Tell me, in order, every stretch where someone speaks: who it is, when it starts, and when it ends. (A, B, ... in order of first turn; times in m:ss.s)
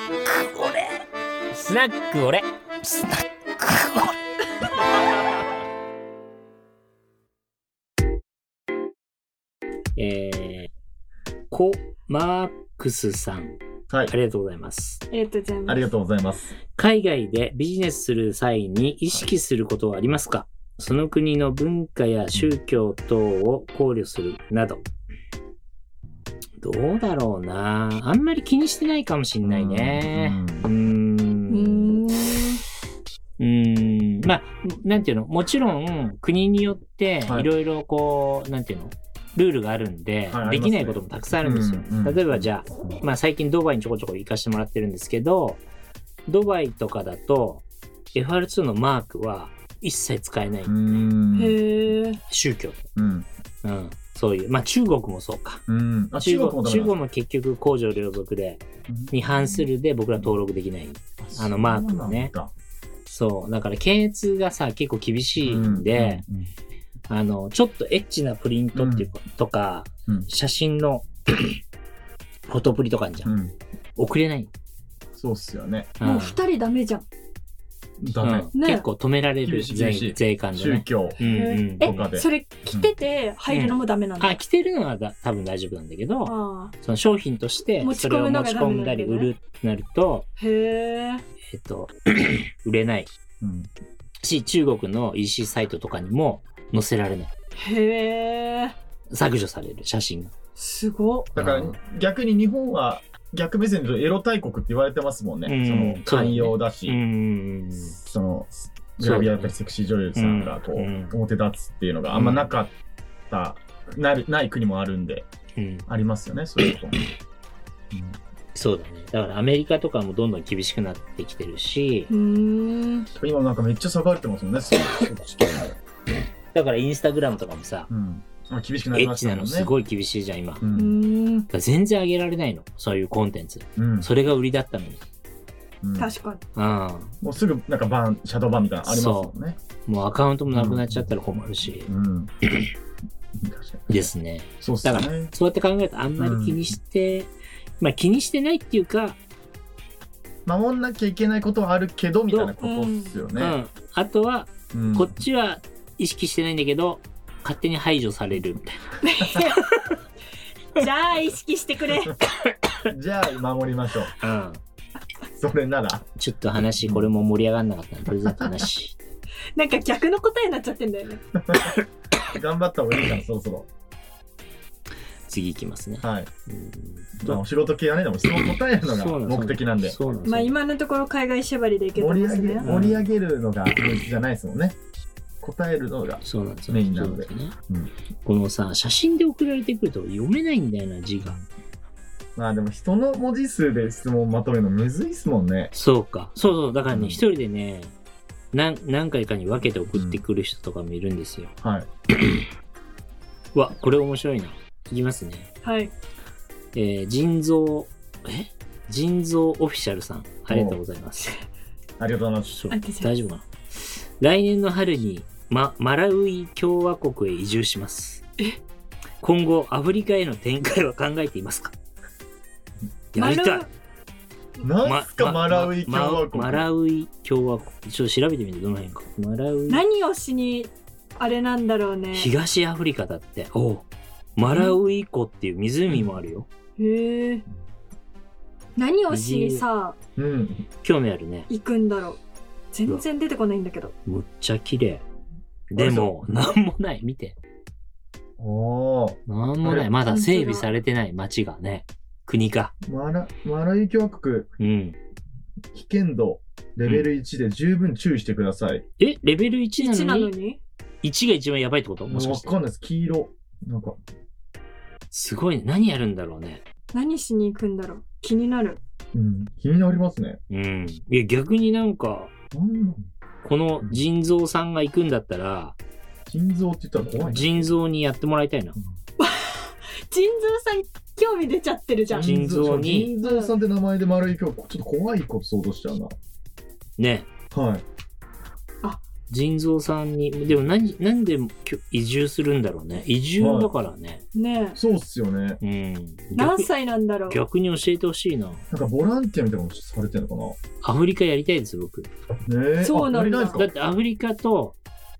0:00.2-0:02.9 A
0:03.6-0:04.1 A
0:10.0-0:10.7 A
0:11.5-0:13.6 A
0:14.1-0:15.0 A
0:15.1-0:15.8 B
0:15.6-0:16.6 C
0:16.7-0:24.8 A
0:26.6-0:32.0 A
0:29.4-0:30.7 C
0:31.5-0:32.6 B
0:33.4-0:45.6 A
0:40.3-0:42.9 C
0:46.3-0:50.7 A
0:50.7-0:51.6 C
0:51.3-0:52.2 B
0:52.3-0:52.8 A
0:53.0-0:53.3 C
0:53.6-0:55.6 A
0:55.7-0:56.9 C
0:56.2-1:02.3 A
0:58.9-0:59.7 C
1:01.2-1:02.5 C
1:03.0-1:06.2 A
1:05.4-1:06.5 C
1:07.1-1:11.5 A
1:08.7-1:09.1 C
1:12.5-1:13.3 A
1:13.2-1:13.5 C
1:14.0-1:14.5 A
1:15.2-1:15.9 C
1:16.0-1:16.4 A
1:16.0-1:17.0 B
1:18.0-1:18.5 C
1:18.1-1:22.1 A
1:18.5-1:18.8 B
1:19.4-1:21.2 C
1:21.2-1:24.3 B
1:21.8-1:22.9 C
1:23.5-1:30.3 A
1:26.2-1:26.7 B
1:27.8-1:29.3 B
1:30.4-1:31.2 B
1:31.5-1:33.1 A
1:33.4-1:33.7 C
1:34.2-1:37.3 A
1:37.6-1:38.7 B
1:39.1-1:40.3 A
1:40.6-1:41.3 B
1:41.3-1:47.0 C
1:41.4-1:41.8 A
1:45.4-1:48.0 A
1:47.9-1:52.7 C
1:49.0-1:49.5 A
1:50.1-1:51.2 A
1:52.1-1:52.5 A
1:53.3-1:55.3 C
1:55.6-1:55.8 A
1:55.9-1:57.0 C
1:57.9-1:58.2 C
1:58.5-2:02.1 A
2:02.1-2:03.1 B
2:03.2-2:05.8 C
2:06.5-2:07.9 A
2:07.9-2:09.7 C
2:08.9-2:10.6 A
2:10.6-2:11.0 C
2:10.7-2:11.5 B
2:11.5-2:15.0 A
2:13.8-2:14.1 C
2:15.8-2:16.1 C
2:16.0-2:16.4 B
2:16.6-2:17.1 A
2:17.2-2:19.6 C
2:18.8-2:19.3 A
2:19.8-2:21.9 A
2:20.5-2:21.1 C
2:21.8-2:22.3 C
2:23.4-2:24.1 C
2:23.9-2:29.2 A
2:24.6-2:25.3 C
2:26.2-2:26.7 C
2:30.4-2:33.6 C
2:32.6-2:33.1 B
2:33.4-2:38.9 A
2:34.7-2:35.2 C
2:39.0-2:39.6 B
2:39.7-2:40.0 A
2:40.8-2:42.2 B
2:42.9-2:44.1 C
2:44.2-2:44.6 A
2:45.3-2:46.1 C
2:46.2-2:49.0 A
2:46.8-2:47.1 C
2:48.2-2:48.7 C
2:49.6-2:51.2 B
2:51.4-2:51.7 C
2:52.3-2:53.7 C
2:55.3-2:57.4 A
2:56.0-2:56.3 C
2:57.2-3:00.2 C
2:58.8-3:00.5 A
3:00.2-3:02.7 B
3:02.0-3:04.8 C
3:02.6-3:03.0 A
3:05.4-3:07.9 C
3:06.2-3:07.6 A
3:08.2-3:11.4 A
3:12.4-3:15.7 C
3:15.7-3:17.9 A
3:16.9-3:17.2 C
3:18.5-3:21.5 A
3:19.9-3:20.2 C
3:21.6-3:21.9 C
3:23.5-3:25.5 A
3:25.6-3:25.9 B
3:26.7-3:31.3 A
3:30.5-3:30.8 C
3:32.0-3:32.5 C
3:32.5-3:38.2 A
3:32.7-3:33.1 B
3:39.2-3:41.7 A
3:43.1-3:43.6 A
3:43.2-3:43.7 B
3:44.6-3:46.6 C
3:44.8-3:49.8 A
3:49.7-3:52.3 B
3:52.1-3:56.5 A
3:56.8-3:57.4 B
3:58.8-3:59.9 B
3:59.1-3:59.6 A
4:00.2-4:00.6 C
4:00.8-4:01.5 A
4:01.5-4:02.2 B
4:02.7-4:03.9 B
4:04.0-4:05.0 A
4:05.7-4:07.4 A
4:05.8-4:06.5 C
4:08.4-4:09.9 C
4:09.3-4:12.7 A
4:10.0-4:10.7 B
4:12.8-4:14.5 C
4:14.6-4:15.0 A
4:15.7-4:18.8 C
4:19.0-4:20.3 A
4:19.8-4:20.6 B
4:21.0-4:22.6 A
4:22.1-4:24.0 C
4:25.1-4:26.6 A
4:26.9-4:28.8 B
4:29.1-4:30.4 C
4:30.5-4:32.3 A
4:32.5-4:33.0 C
4:33.4-4:35.8 A
4:36.3-4:37.7 C
4:37.1-4:38.8 A
4:39.2-4:42.3 B
4:42.1-4:46.1 C
4:42.1-4:43.1 A
4:43.2-4:43.5 B
4:47.0-4:47.3 A
4:47.5-4:47.8 C
4:49.3-4:54.2 A
4:53.4-4:53.7 C
4:54.3-4:54.8 B
4:54.8-4:55.6 C
4:55.6-4:56.7 A
4:56.4-4:57.4 B
4:57.3-4:58.6 A
4:58.7-5:00.6 C
5:00.8-5:02.1 A
5:02.4-5:03.7 C
5:02.8-5:03.6 B
5:03.6-5:04.8 A